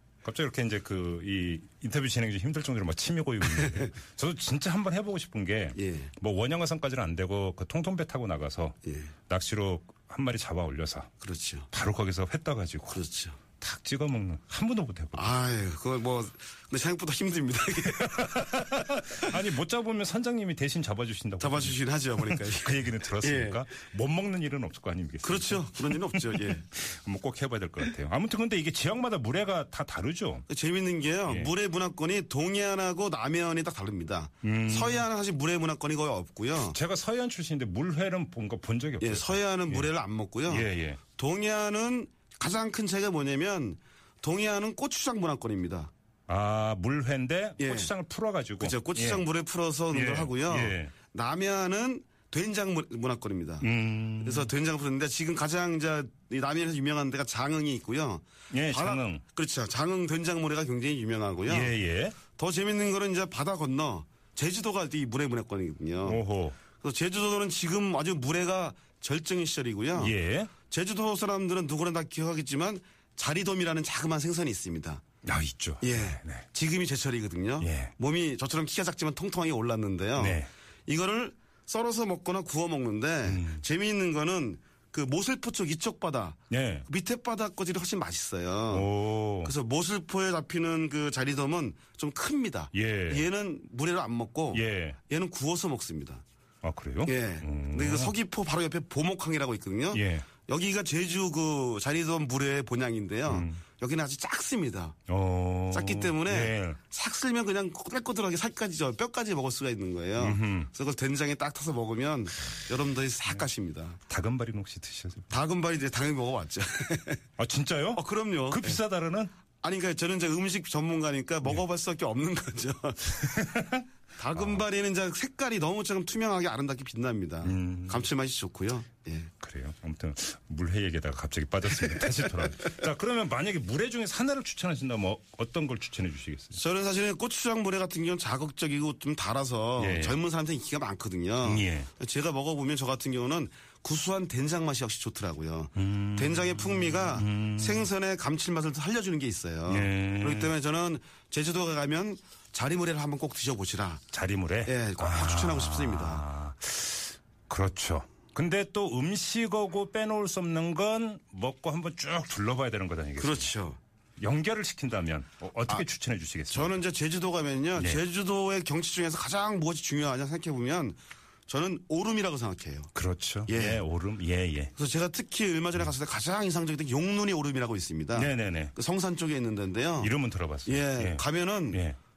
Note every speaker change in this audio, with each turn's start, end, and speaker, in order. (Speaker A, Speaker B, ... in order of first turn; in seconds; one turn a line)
Speaker A: 0.2-8.8
Speaker B: 5.7-6.1
Speaker B: 8.8-9.1
Speaker A: 9.3-11.1
Speaker B: 11.2-11.7
Speaker A: 11.7-13.0
Speaker B: 12.9-13.4
Speaker A: 13.6-15.3
Speaker B: 15.1-19.2
Speaker A: 17.8-30.4
Speaker B: 21.4-23.6
Speaker B: 25.2-26.7
Speaker B: 30.5-36.8
Speaker A: 31.2-31.5
Speaker A: 34.4-35.0
Speaker A: 36.5-39.9
Speaker B: 39.0-45.9
Speaker A: 40.5-41.0
Speaker A: 46.3-49.2
Speaker B: 47.6-47.9
Speaker B: 48.6-61.7
Speaker A: 49.9-50.9
Speaker A: 53.6-54.5
Speaker A: 58.5-59.2
Speaker A: 61.5-62.2
Speaker B: 62.3-66.2
Speaker A: 66.0-66.6
Speaker B: 66.8-75.0
Speaker A: 69.9-70.5
Speaker A: 75.2-76.4
Speaker B: 75.8-96.2
Speaker A: 77.6-77.9
Speaker A: 80.2-80.5
Speaker A: 83.2-83.6
Speaker A: 86.5-86.8
Speaker A: 88.7-89.5
Speaker A: 92.7-93.2
Speaker A: 94.5-95.0
Speaker A: 96.6-98.1
Speaker B: 97.0-105.0
Speaker A: 99.9-100.3
Speaker A: 103.3-103.6
Speaker A: 105.1-106.8
Speaker B: 105.7-114.0
Speaker A: 110.2-110.7
Speaker A: 114.1-115.3
Speaker B: 115.3-117.2
Speaker A: 117.4-119.3
Speaker B: 117.9-118.8
Speaker B: 119.6-123.3
Speaker A: 123.2-124.6
Speaker B: 124.1-129.3
Speaker A: 127.4-128.1
Speaker A: 129.4-136.6
Speaker B: 131.8-132.3
Speaker B: 136.5-154.0
Speaker A: 139.8-140.2
Speaker A: 141.4-141.9
Speaker A: 145.7-147.9
Speaker A: 149.7-150.5
Speaker A: 154.1-163.5
Speaker B: 154.6-156.2
Speaker B: 163.2-163.8
Speaker A: 164.2-166.8
Speaker B: 166.5-172.9
Speaker A: 167.8-168.0
Speaker A: 172.9-174.7
Speaker B: 173.5-173.8
Speaker B: 174.7-180.1
Speaker A: 178.1-178.7
Speaker A: 180.0-182.0
Speaker B: 180.6-181.8